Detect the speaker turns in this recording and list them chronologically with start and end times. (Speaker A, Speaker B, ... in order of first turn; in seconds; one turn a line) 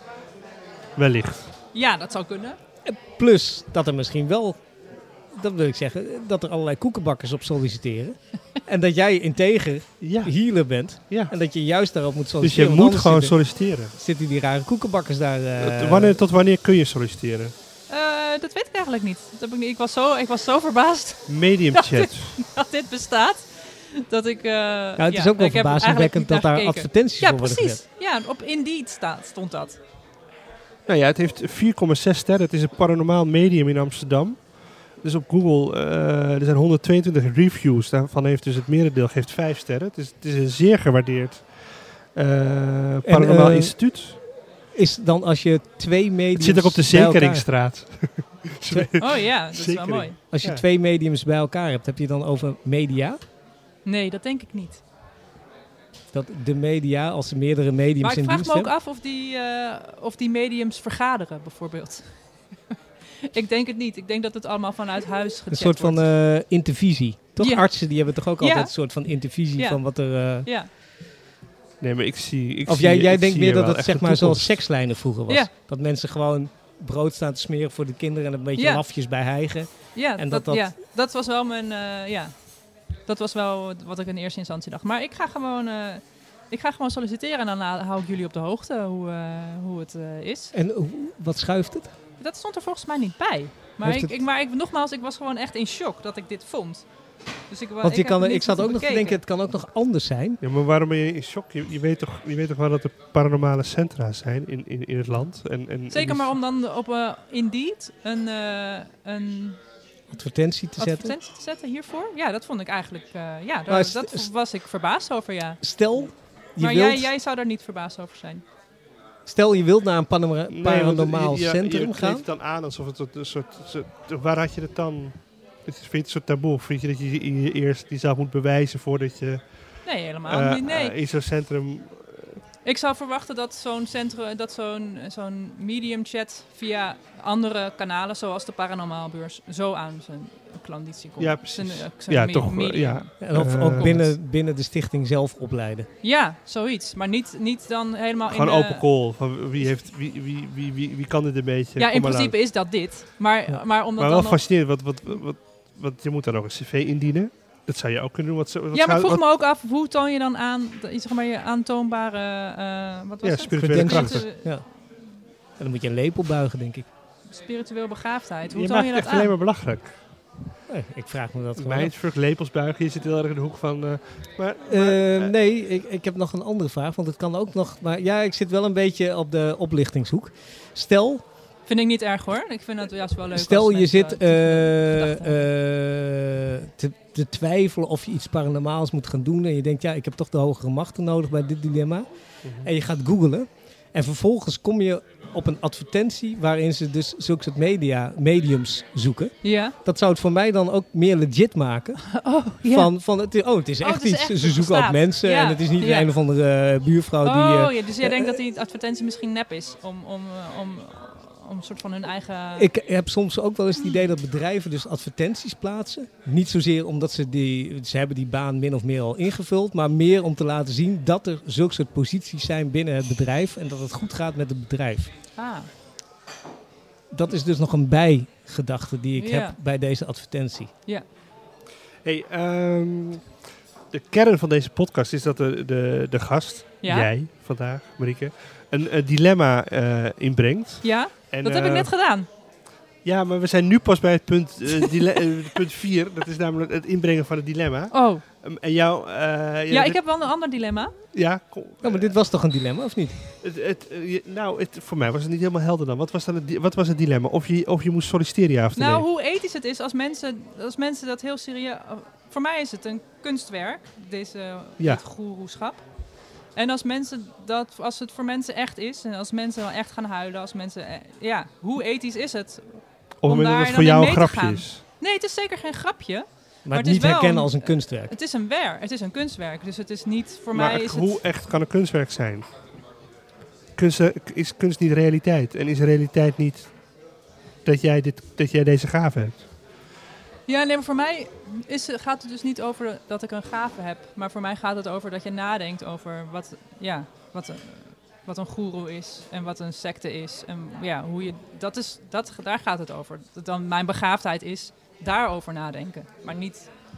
Speaker A: 1.0-1.5
Speaker B: 1.7-2.6
Speaker C: 2.8-4.6
Speaker C: 5.3-13.4
Speaker A: 10.0-10.3
Speaker A: 12.4-13.9
Speaker C: 13.9-16.2
Speaker A: 15.6-17.5
Speaker B: 17.9-29.8
Speaker A: 21.3-22.4
Speaker C: 25.0-27.8
Speaker A: 30.9-44.2
Speaker C: 43.0-43.8
Speaker C: 44.7-47.5
Speaker A: 46.3-50.6
Speaker B: 49.0-50.2
Speaker C: 50.3-53.2
Speaker B: 53.8-54.8
Speaker C: 56.1-58.7
Speaker B: 58.0-62.1
Speaker B: 62.7-66.0
Speaker C: 65.5-70.5
Speaker B: 67.4-68.7
Speaker B: 69.5-70.7
Speaker A: 71.8-74.6
Speaker C: 72.7-80.7
Speaker B: 78.6-78.8
Speaker B: 79.9-82.3
Speaker B: 83.1-90.5
Speaker C: 90.5-91.9
Speaker B: 92.2-96.8
Speaker C: 93.8-94.1
Speaker B: 97.5-99.2
Speaker C: 97.8-100.4
Speaker A: 100.4-106.3
Speaker B: 105.9-109.6
Speaker C: 110.1-111.2
Speaker B: 110.8-115.6
Speaker C: 113.7-114.3
Speaker C: 115.6-117.1
Speaker B: 116.6-118.4
Speaker C: 119.2-122.2
Speaker A: 120.5-129.4
Speaker B: 129.8-130.9
Speaker A: 130.2-132.3
Speaker B: 132.6-143.1
Speaker A: 141.2-144.1
Speaker C: 143.2-145.9
Speaker B: 143.7-144.0
Speaker B: 146.0-148.8
Speaker A: 148.3-152.3
Speaker B: 151.8-154.4
Speaker A: 154.0-159.2
Speaker B: 158.7-164.5
Speaker A: 163.2-164.2
Speaker C: 163.6-164.6
Speaker C: 165.6-166.9
Speaker B: 167.3-169.3
Speaker A: 168.5-169.9
Speaker C: 170.7-171.9
Speaker A: 171.6-175.3
Speaker C: 174.7-181.2
Speaker B: 181.7-185.5
Speaker C: 183.3-192.1
Speaker C: 192.6-208.4
Speaker B: 199.4-199.7
Speaker B: 202.1-202.9
Speaker B: 203.8-206.1
Speaker B: 207.2-212.7
Speaker C: 212.6-225.1
Speaker B: 225.4-225.7
Speaker C: 227.1-230.7
Speaker B: 229.2-229.6
Speaker A: 232.0-233.2
Speaker A: 233.9-241.9
Speaker B: 236.8-237.1
Speaker B: 240.8-242.3
Speaker A: 243.0-250.0
Speaker B: 247.9-248.2
Speaker B: 249.7-250.9
Speaker A: 251.1-252.1
Speaker C: 251.8-253.2
Speaker A: 253.4-259.0
Speaker B: 258.8-265.8
Speaker B: 266.5-281.2
Speaker A: 273.2-274.8
Speaker C: 276.6-278.1
Speaker A: 280.5-282.4
Speaker A: 283.8-286.7
Speaker A: 287.6-289.4
Speaker B: 290.5-306.7